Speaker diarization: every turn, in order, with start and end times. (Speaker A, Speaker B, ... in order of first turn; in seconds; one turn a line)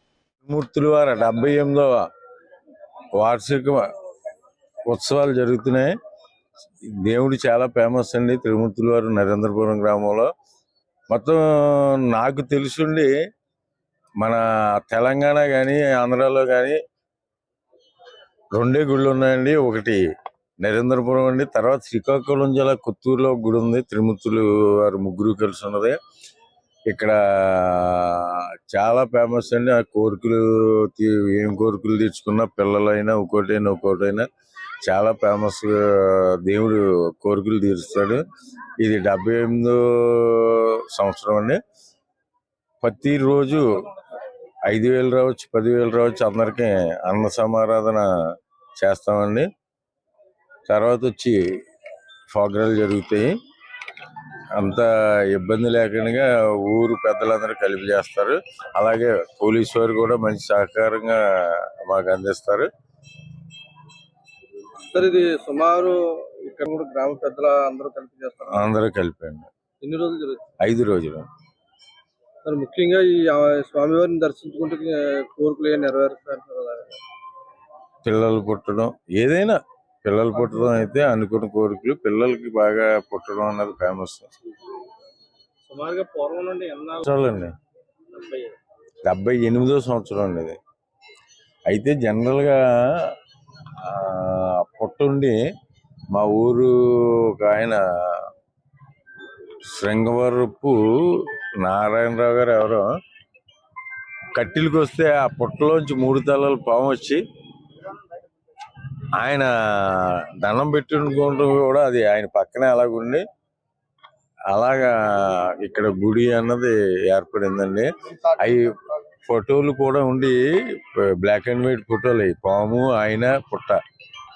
Speaker A: 0.5-1.9
Speaker A: 3.2-3.8
Speaker A: 4.9-5.9
Speaker A: 7.0-10.3
Speaker A: 11.1-13.1
Speaker A: 14.2-16.8
Speaker A: 18.6-20.0
Speaker A: 20.6-25.9
Speaker A: 26.9-34.3
Speaker A: 34.8-38.2
Speaker A: 38.8-41.6
Speaker A: 42.8-43.7
Speaker A: 44.7-48.1
Speaker A: 48.8-49.5
Speaker A: 50.7-51.4
Speaker A: 52.3-53.3
Speaker A: 54.5-62.7
Speaker B: 64.9-68.7
Speaker A: 68.5-69.5
Speaker B: 69.8-70.4
Speaker A: 70.6-71.3
Speaker B: 72.4-77.0
Speaker A: 78.0-84.3
Speaker B: 85.6-87.1
Speaker A: 87.0-87.5
Speaker B: 88.1-88.5
Speaker A: 89.0-90.6
Speaker A: 91.7-93.1
Speaker A: 93.8-95.4
Speaker A: 96.1-98.3
Speaker A: 99.7-102.9
Speaker A: 104.3-107.2
Speaker A: 109.2-113.2
Speaker A: 114.5-118.8
Speaker A: 119.3-123.8